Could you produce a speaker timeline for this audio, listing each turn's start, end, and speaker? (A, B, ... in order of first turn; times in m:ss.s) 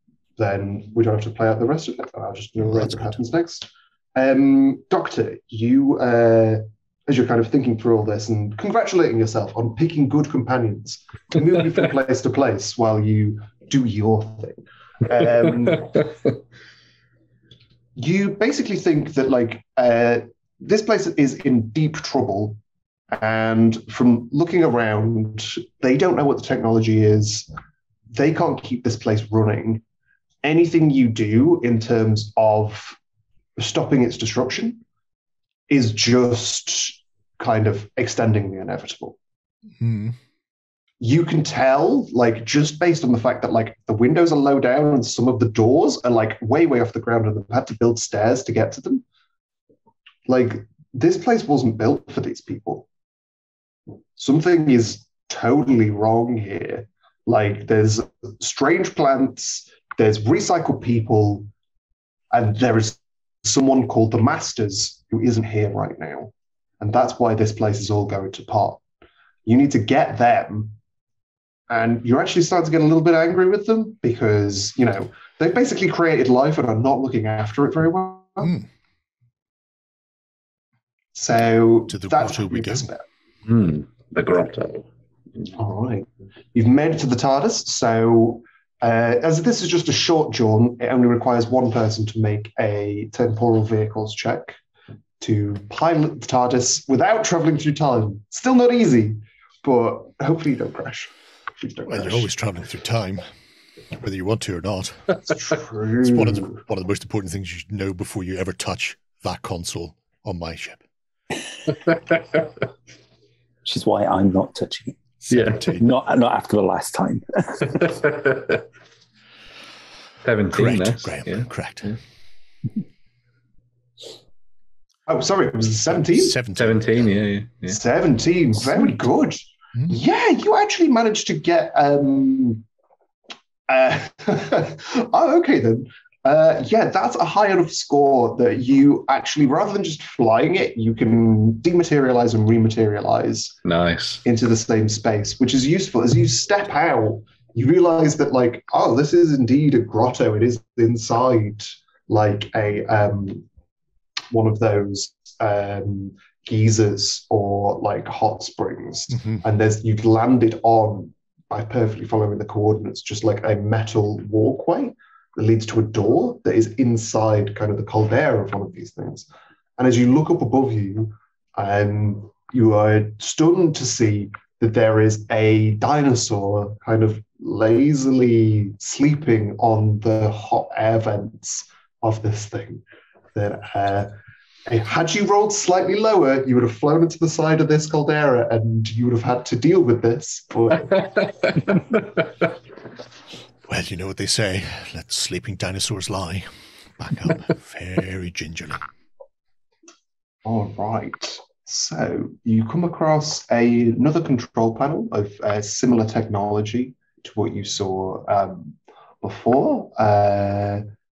0:00.4-0:16.1 A
0:02.6-0:03.2 B
0:18.0-0:22.6 A
0:23.1-0:27.5 A
0:28.1-0:29.8 A
0:30.4-0:33.0 A
0:33.6-0:34.8 A
0:35.7-0:39.2 A
0:39.8-0:40.2 B
0:41.0-0:49.0 A
0:50.3-0:52.9 A
0:54.2-1:01.5 A
1:02.3-1:08.8 A
1:09.5-1:10.8 A
1:11.7-1:18.6 A
1:18.4-1:18.7 B
1:21.2-1:23.0 A
1:21.9-1:22.9 B
1:23.4-1:24.8 C
1:25.5-1:34.6 A
1:35.2-1:42.3 A
1:41.9-1:43.3 B
1:44.0-1:45.2 B
1:45.3-1:46.6 A
1:46.0-1:50.8 B
1:53.6-1:57.8 D
1:55.3-1:55.9 B
1:55.3-1:55.6 C
1:57.8-1:58.6 C
2:00.2-2:01.5 C
2:00.5-2:02.0 B
2:05.1-2:06.4 A
2:05.9-2:07.2 B
2:06.6-2:07.8 C
2:07.7-2:12.6 A
2:13.7-2:23.6 A
2:23.6-2:24.2 C
2:24.2-2:33.4 A
2:34.3-3:02.8 A
2:39.1-2:39.4 B
3:03.4-3:04.2 A
3:04.7-3:11.0 A
3:13.7-3:18.8 B
3:20.4-3:30.8 A